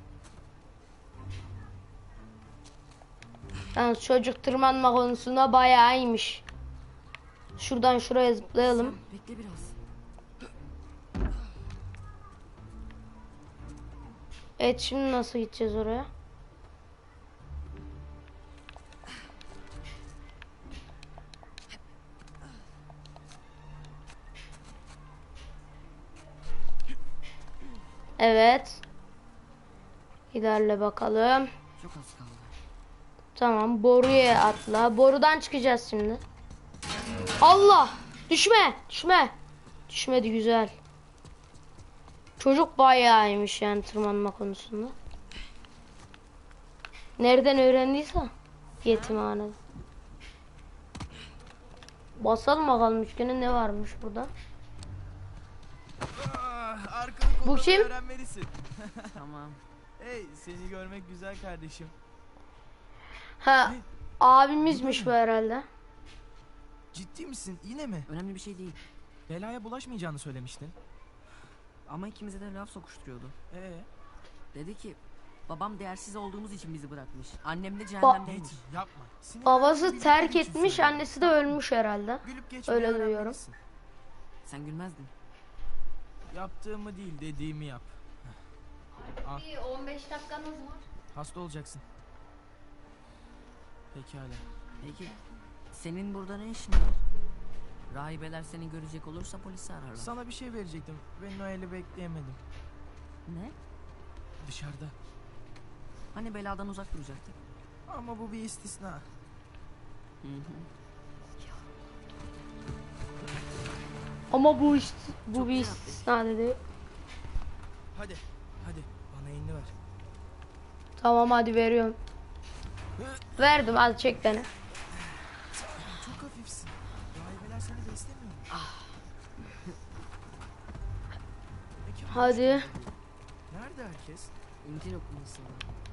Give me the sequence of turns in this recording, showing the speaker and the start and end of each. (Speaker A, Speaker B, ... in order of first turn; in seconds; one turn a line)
Speaker A: 3.8-6.4
Speaker A: 7.6-9.0
Speaker B: 8.5-9.8
Speaker A: 14.6-16.1
Speaker A: 28.2-28.8
Speaker A: 30.3-31.5
Speaker B: 31.8-32.6
Speaker A: 33.4-36.2
Speaker A: 37.4-39.4
Speaker A: 39.9-40.7
Speaker A: 42.4-45.0
Speaker A: 47.2-48.3
Speaker A: 48.8-49.6
Speaker B: 48.8-49.2
Speaker A: 52.2-54.3
Speaker C: 56.1-59.2
Speaker A: 57.4-57.9
Speaker B: 59.1-59.6
Speaker C: 60.0-62.0
Speaker A: 63.4-65.7
Speaker C: 64.7-65.1
Speaker C: 66.9-68.1
Speaker B: 68.1-68.8
Speaker C: 69.3-70.8
Speaker B: 71.9-73.3
Speaker C: 73.5-73.9
Speaker B: 74.5-78.6
Speaker C: 78.2-81.1
Speaker A: 79.5-83.4
Speaker C: 82.2-83.6
Speaker B: 84.5-85.1
Speaker C: 86.3-88.3
Speaker C: 89.2-89.6
Speaker C: 91.1-91.8
Speaker C: 93.9-94.5
Speaker B: 94.8-95.2
Speaker B: 95.7-97.0
Speaker B: 97.9-100.1
Speaker C: 100.0-102.4
Speaker B: 103.3-103.5
Speaker C: 104.4-105.0
Speaker B: 106.1-107.4
Speaker C: 107.9-109.1
Speaker B: 110.2-110.7
Speaker A: 114.3-116.6
Speaker B: 115.3-116.0
Speaker C: 117.9-119.7
Speaker A: 121.0-122.0
Speaker A: 123.4-124.5
Speaker C: 125.0-128.5
Speaker B: 128.5-129.0
Speaker C: 131.8-133.0
Speaker A: 132.1-132.7
Speaker C: 133.5-134.3
Speaker B: 134.6-135.7